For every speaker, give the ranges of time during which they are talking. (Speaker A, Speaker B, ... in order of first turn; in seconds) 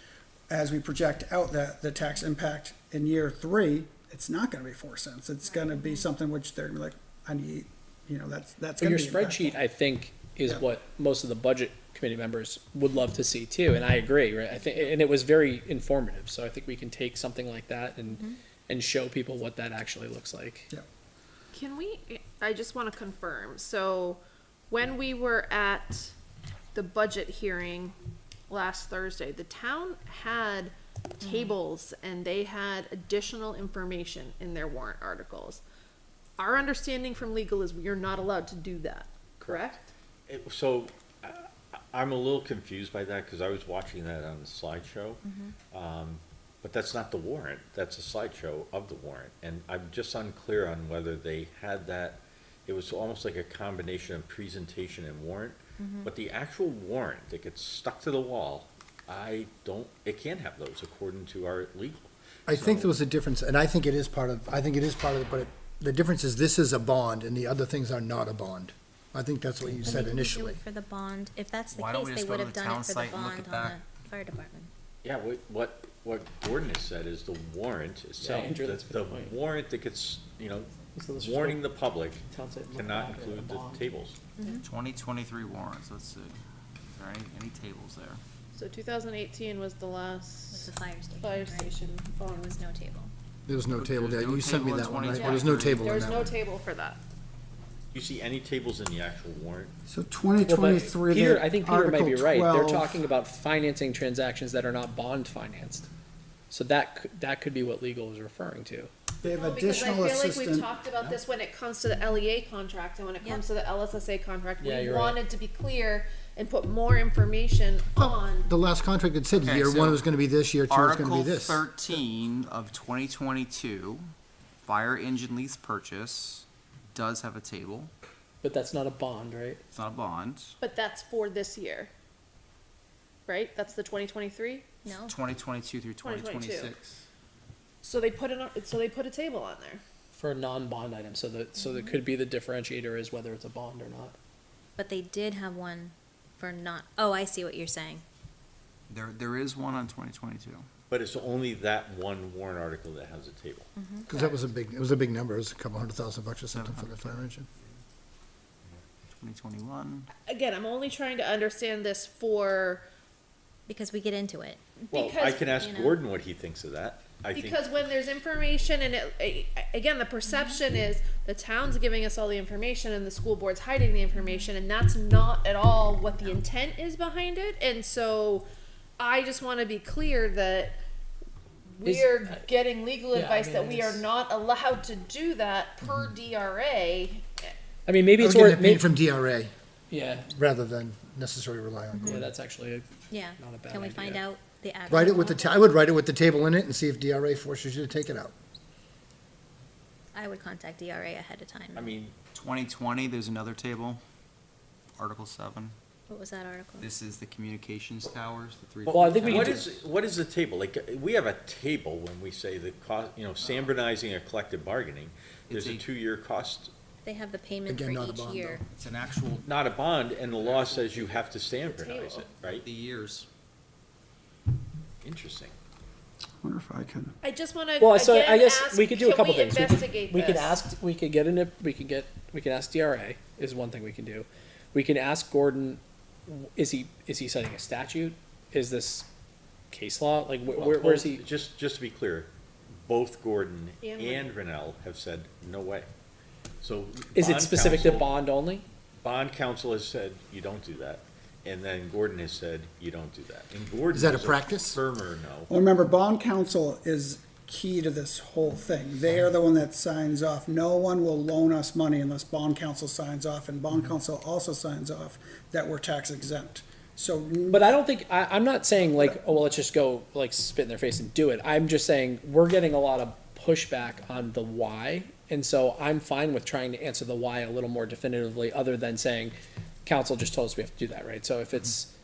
Speaker A: 0.5-9.6, 99.9-103.0, 109.2-110.7, 226.4-227.2, 255.5-267.7, 268.8-269.2
Speaker B: 5.5-6.0, 31.2-31.6, 45.2-45.5, 55.8-56.1, 69.8-74.7, 84.4-84.7, 90.5-91.8, 92.4-93.1, 134.8-135.2, 141.6-142.0, 144.8-148.0, 153.8-154.1, 163.7-164.6, 165.6-166.0, 170.2-170.6, 174.1-174.5, 193.1-195.7, 200.2-201.9, 206.1-206.9, 217.0-218.6
Speaker C: 8.8-20.7, 78.2-79.3, 81.0-81.6, 82.3-83.8, 100.5-105.9, 106.5-108.9, 114.6-115.2, 128.4-129.6, 140.1-144.2, 181.8-182.4, 183.1-184.1, 187.9-188.9, 189.9-190.2, 192.0-194.2, 208.9-209.6, 227.8-239.1, 239.7-241.2, 247.1-248.7, 267.5-281.9
Speaker D: 21.5-26.1, 26.7-27.9, 28.5-35.6, 36.4-39.9, 88.5-92.6, 95.1-97.0, 109.2-118.5, 130.6-131.9, 133.3-134.7, 136.0-136.7, 137.8-139.8, 160.3-162.8, 164.8-165.6, 167.3-178.5, 179.0-180.8, 181.7-187.5, 221.6-222.3, 227.2-230.6, 243.8-244.3
Speaker E: 40.3-63.0, 75.0-84.2, 97.9-99.7, 150.9-153.7, 164.9-167.6, 201.8-202.1, 208.9-216.7, 219.4-222.7, 225.0-225.5, 240.5-245.9, 246.6-248.1, 249.0-255.5
Speaker F: 62.5-70.6, 93.5-96.2, 118.0-121.7, 154.1-157.5, 188.2-189.5, 190.2-192.3, 194.9-198.3, 217.7-218.6, 253.9-254.8
Speaker G: 71.7-73.8, 84.6-86.4, 86.9-88.2, 93.7-96.3, 119.4-120.0, 120.7-124.1, 124.6-127.9, 129.7-130.6, 135.1-137.0, 148.9-150.7, 156.5-157.8, 159.0-160.1, 202.3-204.0, 205.0-205.8, 206.8-209.8, 215.5-215.8, 218.7-219.4, 220.4-221.2, 222.4-223.3